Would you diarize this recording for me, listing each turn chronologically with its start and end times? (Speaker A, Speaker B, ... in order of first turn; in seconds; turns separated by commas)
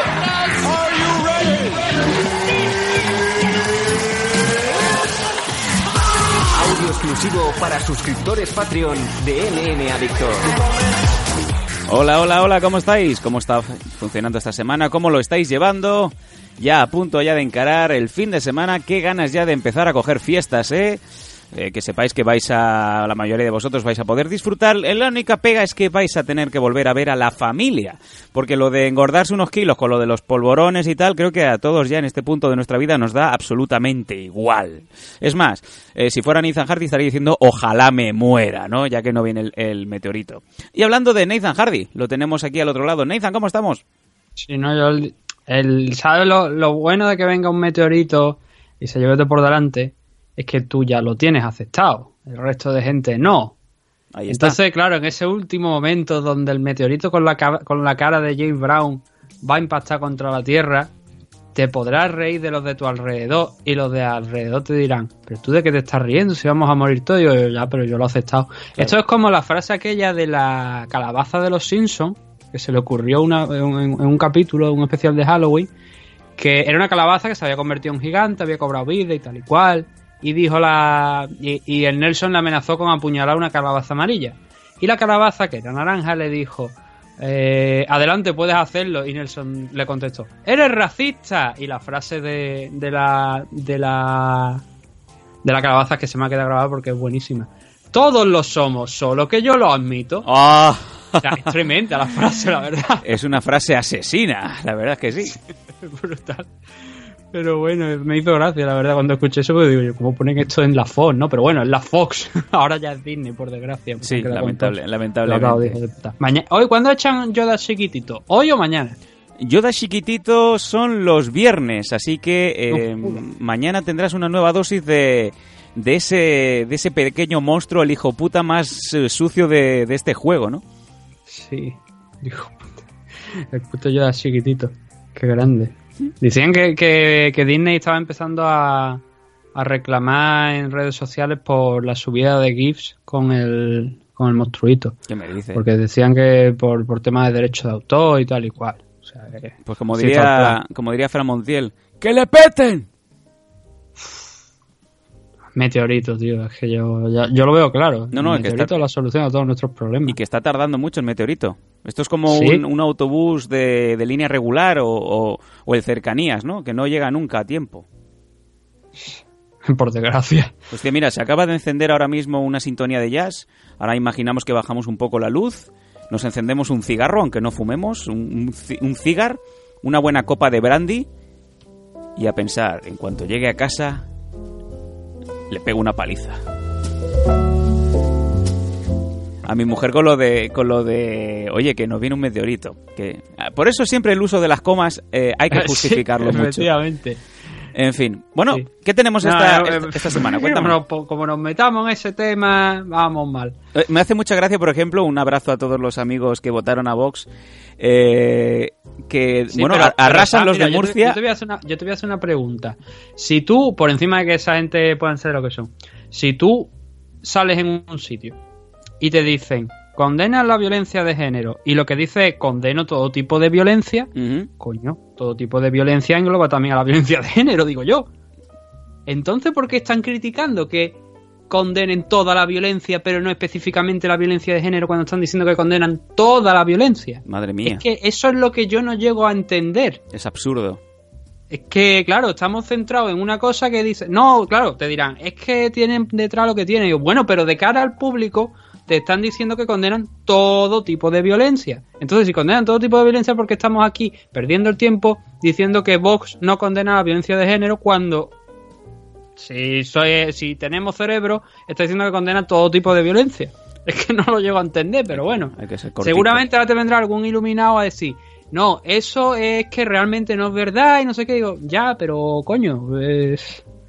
Speaker A: 0.4-2.0, Speaker A: 6.5-10.6, Speaker B: 11.9-43.8, Speaker C: 44.4-53.5, Speaker B: 54.1-54.6, Speaker C: 54.3-60.9, Speaker C: 61.5-75.7, Speaker C: 76.4-94.7, Speaker C: 95.4-100.3, Speaker B: 100.3-101.4, Speaker C: 101.2-103.1, Speaker B: 103.0-105.4, Speaker C: 105.8-106.5, Speaker C: 107.3-119.0, Speaker B: 114.0-115.8, Speaker B: 119.4-130.6, Speaker C: 122.7-123.2, Speaker C: 131.3-132.6, Speaker C: 133.3-139.0, Speaker C: 139.6-145.0, Speaker B: 145.1-145.6, Speaker C: 145.5-150.6, Speaker B: 149.7-152.9, Speaker C: 155.6-160.2, Speaker B: 158.1-158.7, Speaker B: 160.1-167.9, Speaker C: 162.3-162.6, Speaker C: 169.0-170.6, Speaker B: 170.7-181.1, Speaker B: 182.2-184.1, Speaker B: 185.5-186.4, Speaker B: 189.4-196.7, Speaker C: 195.5-197.2, Speaker B: 197.7-200.8, Speaker C: 199.2-203.6, Speaker B: 203.7-207.3, Speaker B: 207.8-211.2, Speaker C: 209.5-216.7, Speaker C: 217.2-218.4, Speaker C: 219.0-228.1, Speaker B: 224.2-224.5, Speaker C: 229.1-231.0, Speaker C: 231.5-240.0, Speaker B: 237.3-237.8, Speaker B: 240.1-240.8, Speaker C: 241.5-258.3, Speaker C: 259.4-273.6, Speaker B: 265.1-266.4